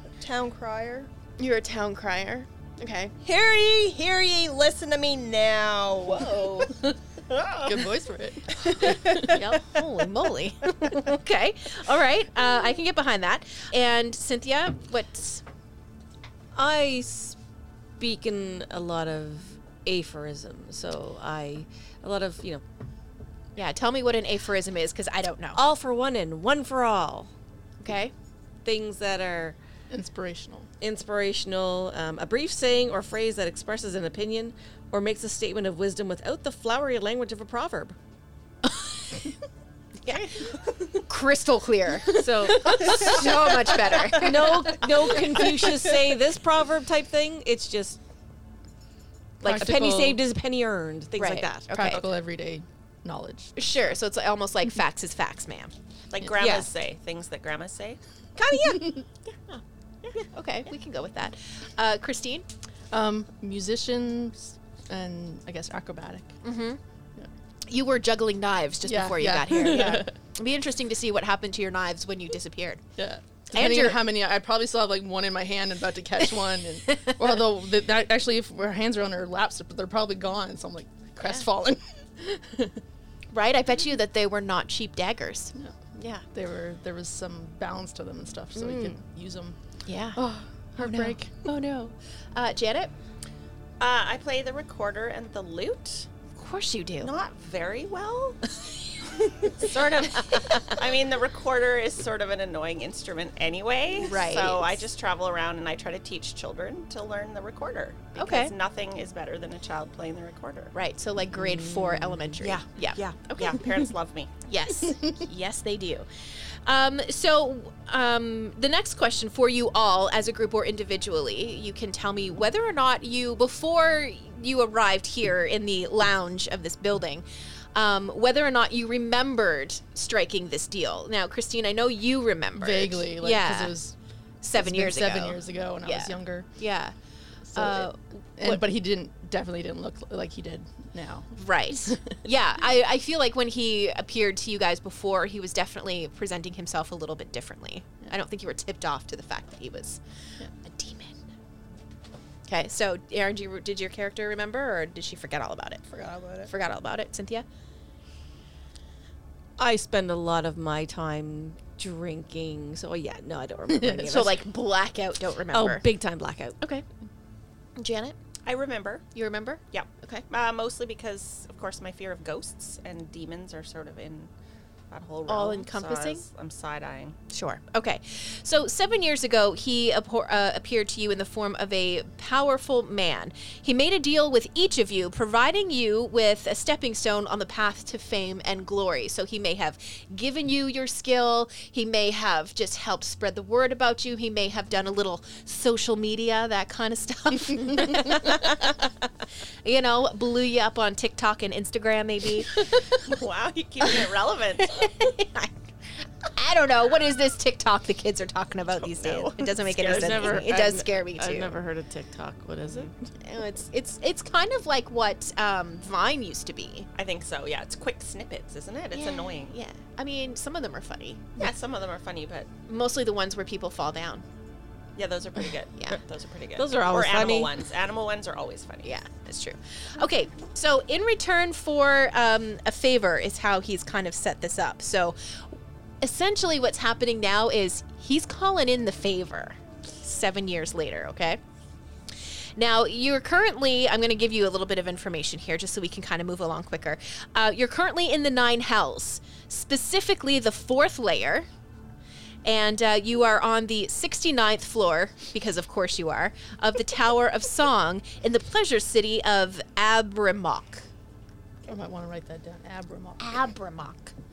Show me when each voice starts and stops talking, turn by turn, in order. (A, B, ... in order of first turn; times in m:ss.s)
0:00.2-0:01.1 A
0:01.4-0:03.1 B
0:03.2-0:06.6 A
0:06.0-0:06.7 B
0:07.3-0:07.8 A
0:07.6-0:09.4 C
0:08.6-0:15.4 B
0:16.5-0:17.4 D
0:18.0-0:22.6 D
0:23.6-0:25.6 B
0:25.5-0:27.3 D
0:27.8-0:28.1 B
0:28.6-0:29.6 D
0:29.9-0:30.7 C
0:30.8-0:37.9 D
0:38.6-0:39.2 B
0:40.0-0:44.8 B
0:42.1-0:43.2 D
0:44.1-0:48.0 D
0:49.4-0:49.8 B
0:49.4-0:50.2 C
0:49.4-0:51.7 D
0:51.2-0:52.0 B
0:51.7-0:53.5 C
0:51.8-0:52.1 E
0:53.6-0:55.7 B
0:56.1-0:58.0 E
0:56.3-0:56.7 D
0:58.4-0:59.6 B
1:00.1-1:02.4 B
1:02.9-1:06.3 C
1:06.4-1:06.8 B
1:07.7-1:12.8 B
1:08.8-1:10.2 C
1:13.0-1:22.8 C
1:13.5-1:14.0 B
1:16.9-1:17.2 B
1:21.2-1:21.4 B
1:23.3-1:26.2 B
1:26.3-1:29.6 C
1:28.5-1:29.0 B
1:29.8-1:30.2 B
1:30.1-1:31.5 C
1:30.8-1:32.9 B
1:33.8-1:36.1 E
1:36.4-1:37.1 B
1:37.0-1:38.4 E
1:39.3-1:50.7 E
1:39.6-1:40.7 B
1:44.0-1:44.8 B
1:48.1-1:48.5 B
1:50.7-1:53.6 B
1:51.4-1:52.2 D
1:52.4-1:54.3 E
1:54.4-1:56.1 B
1:56.6-2:13.8 B
2:12.5-2:13.9 C
2:14.4-2:16.9 B
2:14.5-2:16.5 C
2:17.5-2:22.1 C
2:17.5-2:18.6 B
2:21.4-2:30.0 B
2:30.5-2:31.2 B
2:32.5-2:35.8 B
2:35.9-2:36.5 A
2:36.5-2:37.4 B
2:39.6-2:44.4 D
2:43.7-2:44.1 C
2:44.0-2:45.8 B
2:45.5-2:46.6 D
2:47.8-2:48.2 B
2:48.4-2:49.0 E
2:49.1-2:50.3 B
2:49.7-2:54.3 E
2:54.9-2:57.2 E
2:55.3-2:56.2 B
2:57.3-3:18.9 B
3:19.6-3:22.7 B
3:22.9-3:24.9 E
3:24.6-3:31.6 B
3:28.7-3:30.5 E
3:29.8-3:33.1 D
3:33.2-3:36.9 B
3:36.9-3:39.5 E
3:38.9-3:41.5 B
3:41.4-3:42.5 E
3:42.7-3:44.2 B
3:45.0-3:48.9 E
3:46.6-3:47.5 D
3:48.8-4:01.4 B
4:02.6-4:11.5 B
4:12.4-4:20.9 B
4:21.6-4:23.5 C
4:23.2-4:24.1 B